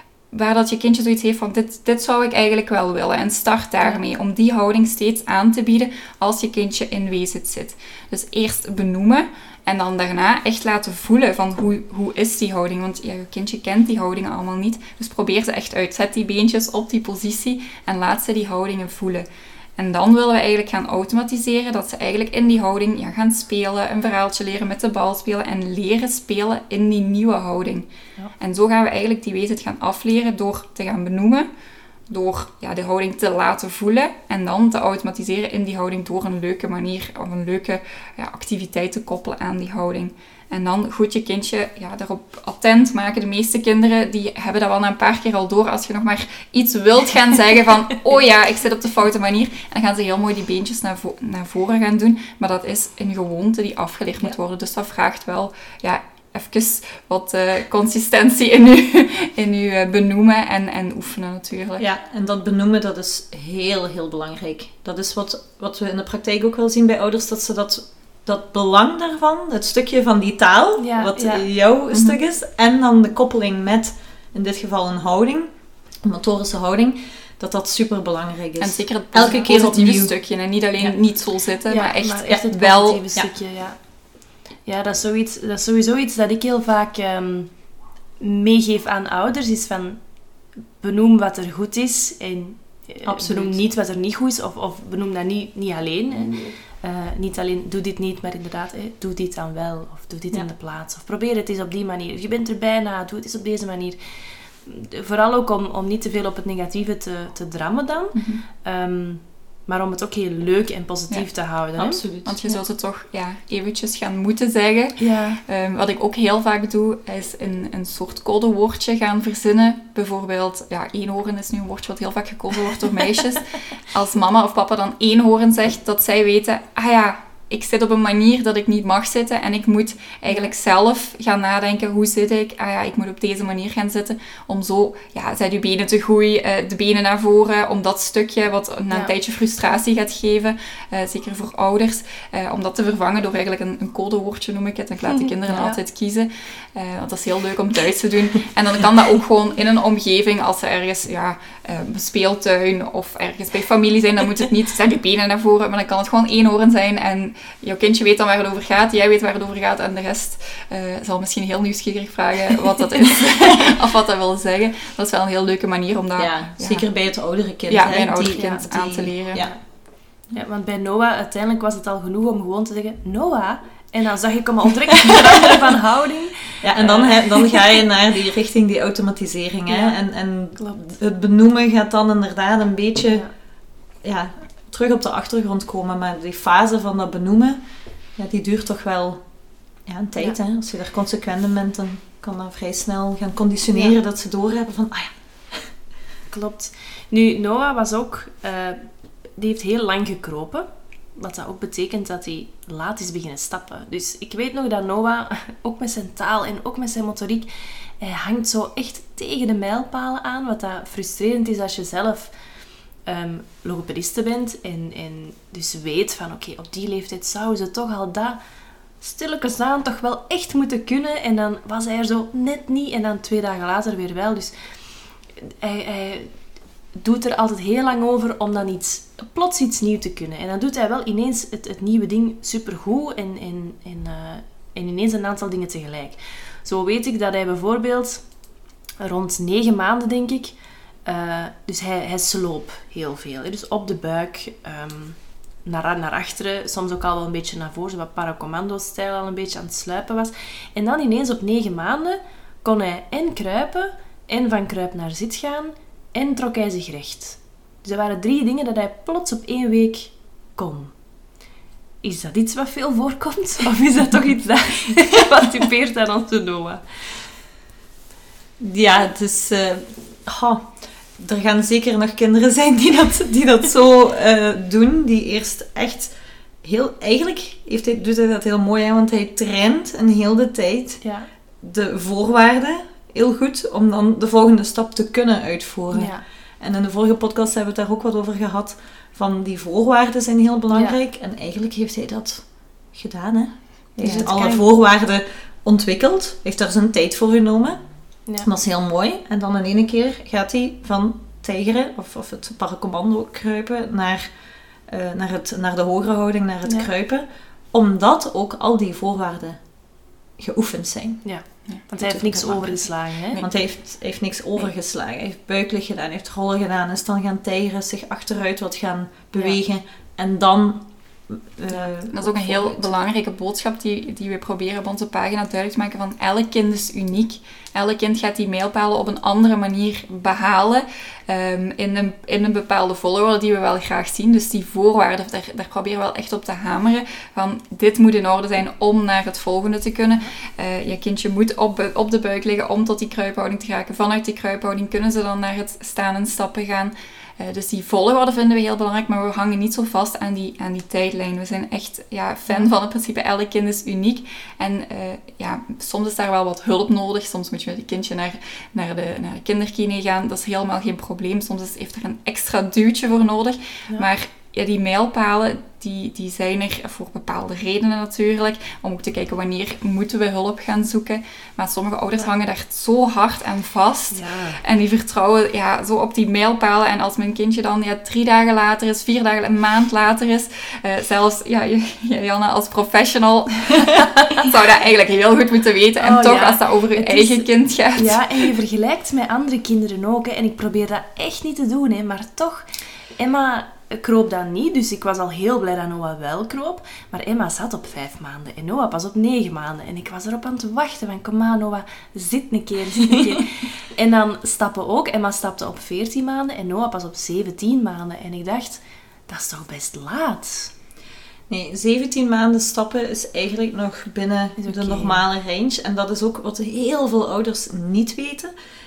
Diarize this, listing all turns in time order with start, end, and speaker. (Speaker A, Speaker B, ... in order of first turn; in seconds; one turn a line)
Speaker A: 0.3-19.2
Speaker A: 19.8-27.9
Speaker A: 28.4-31.5
Speaker A: 32.1-61.8
Speaker B: 61.8-80.1
Speaker C: 70.8-71.5
Speaker A: 71.9-72.2
Speaker A: 78.6-83.0
Speaker C: 81.7-112.0
Speaker B: 93.0-93.6
Speaker A: 108.1-108.4
Speaker B: 111.8-112.5
Speaker A: 112.2-166.9
Speaker C: 115.0-115.4
Speaker C: 145.5-145.8
Speaker B: 166.2-169.5
Speaker A: 167.7-169.5
Speaker C: 168.3-168.7
Speaker C: 169.4-177.6
Speaker B: 176.6-183.3
Speaker C: 179.7-180.0
Speaker C: 183.1-183.3
Speaker B: 184.0-187.6
Speaker B: 188.2-189.2
Speaker B: 189.8-195.7
Speaker C: 196.3-212.3
Speaker C: 213.0-218.4
Speaker C: 219.0-226.3
Speaker C: 226.9-238.3
Speaker C: 239.0-261.0
Speaker C: 262.0-267.3
Speaker B: 268.6-281.0
Speaker C: 281.0-281.3
Speaker B: 281.6-304.3
Speaker C: 285.9-286.2
Speaker C: 290.7-291.0
Speaker C: 294.0-294.6
Speaker B: 304.9-309.7
Speaker C: 306.6-306.9
Speaker B: 310.4-311.3
Speaker C: 311.2-313.4
Speaker B: 312.0-312.8
Speaker A: 312.6-313.5
Speaker B: 313.4-322.9
Speaker A: 322.0-388.5
Speaker C: 374.1-374.6
Speaker C: 386.0-410.7
Speaker B: 411.5-418.5
Speaker C: 414.6-415.2